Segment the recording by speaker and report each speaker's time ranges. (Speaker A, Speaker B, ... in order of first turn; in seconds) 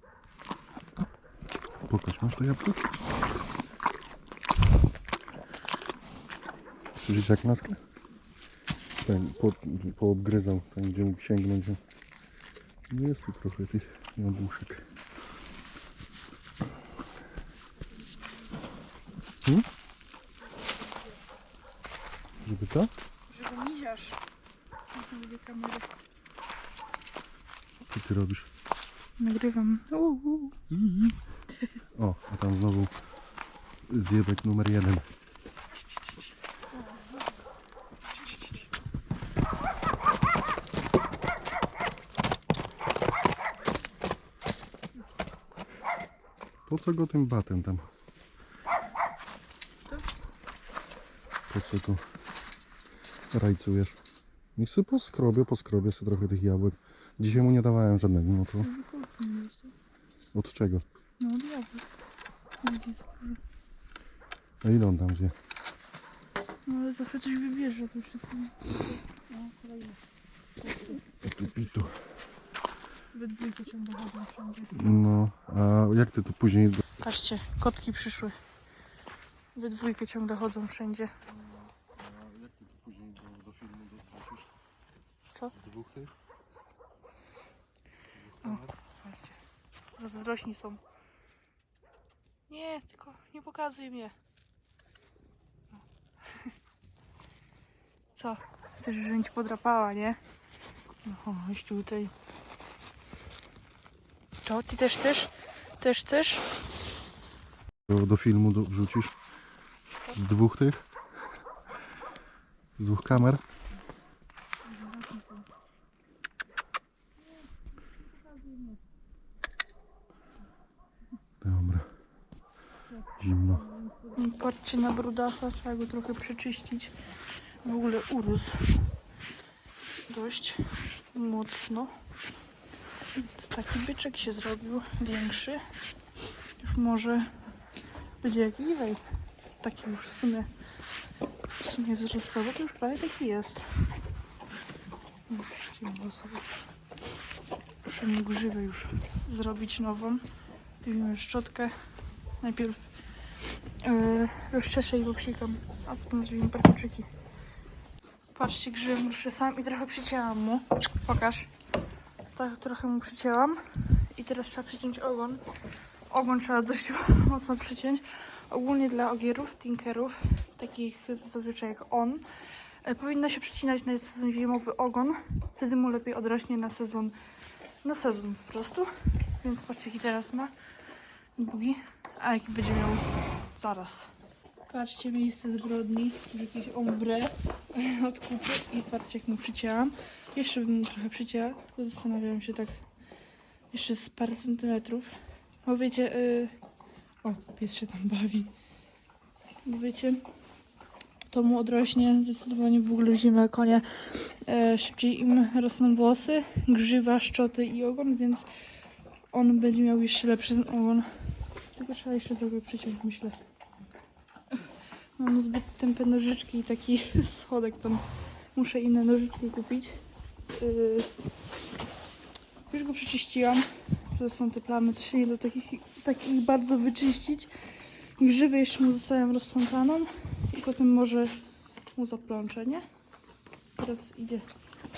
Speaker A: 1.9-2.9, 7.0-7.8, 9.0-11.8, 12.9-14.9, 22.4-22.9, 27.9-28.5, 30.7-31.1, 31.9-33.0, 33.9-35.1, 46.7-47.9, 51.5-52.0, 53.3-54.0, 54.6-58.7, 60.3-60.9, 64.6-65.3, 71.2-71.9, 74.7-76.8, 81.3-84.5, 85.5-86.1, 88.1-88.7, 107.9-109.2, 110.1-110.8, 112.8-113.4, 121.4-121.9, 123.2-123.7
Speaker B: 23.3-24.2, 24.9-25.9, 29.2-30.8, 38.2-38.6, 58.6-59.7, 61.2-61.9, 62.6-63.4, 66.7-70.0, 73.1-75.0, 77.0-78.4, 79.5-81.1, 88.4-89.4, 90.0-90.8, 92.5-94.2, 98.2-100.2, 101.0-102.1, 104.5-106.5, 114.7-115.5, 124.0-127.0, 127.6-128.9, 130.1-132.0, 133.2-135.7, 136.6-137.4, 138.2-139.0, 139.6-140.5, 141.6-143.9, 145.3-146.6, 147.8-150.2, 150.8-151.7, 152.4-152.8, 153.4-157.1, 158.3-161.5, 162.3-165.4, 166.1-172.3, 172.8-177.2, 177.8-180.5, 181.4-184.1, 184.7-192.8, 193.7-195.1, 195.6-196.6, 197.2-198.5, 199.7-200.3, 201.3-208.5, 209.3-213.4, 215.2-221.2, 222.7-227.5, 228.2-231.4, 231.9-232.8, 233.8-234.5